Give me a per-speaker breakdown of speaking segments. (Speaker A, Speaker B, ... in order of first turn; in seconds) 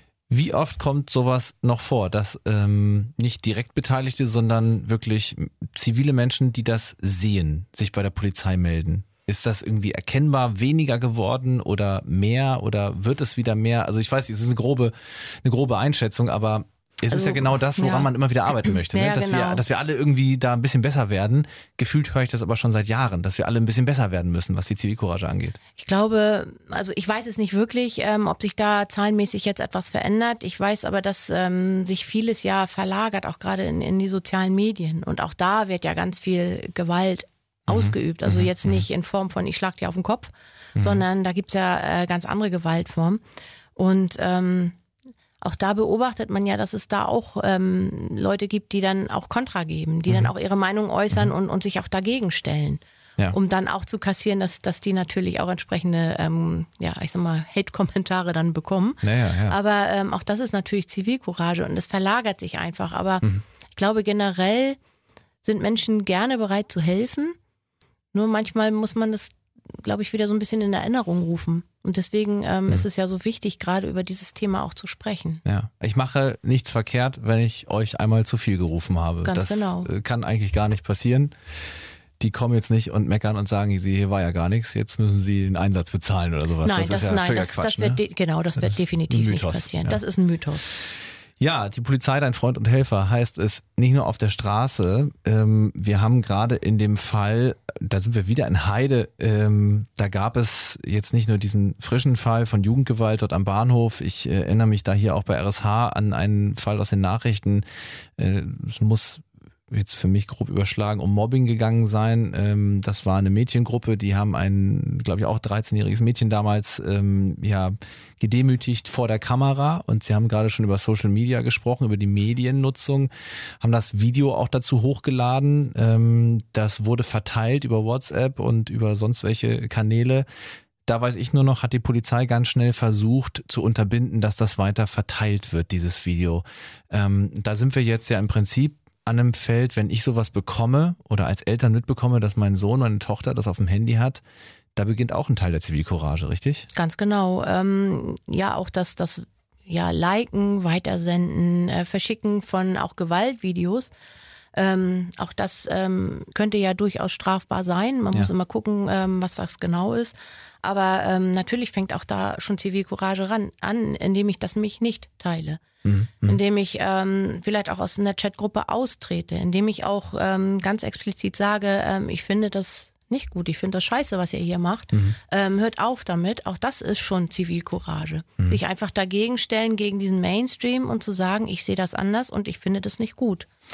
Speaker A: 0.3-25.6, 37.7-38.8, 40.8-41.0, 59.0-59.6, 75.5-81.3, 82.2-88.0, 88.6-90.0, 91.4-107.7, 108.2-130.3, 130.9-144.2, 144.8-146.7, 165.8-166.4
Speaker B: 17.1-19.6, 25.8-43.2, 43.8-44.8, 45.4-64.8, 65.4-67.4, 68.1-75.4, 79.2-79.9, 86.6-90.7, 146.7-153.9, 154.5-165.6, 166.2-183.5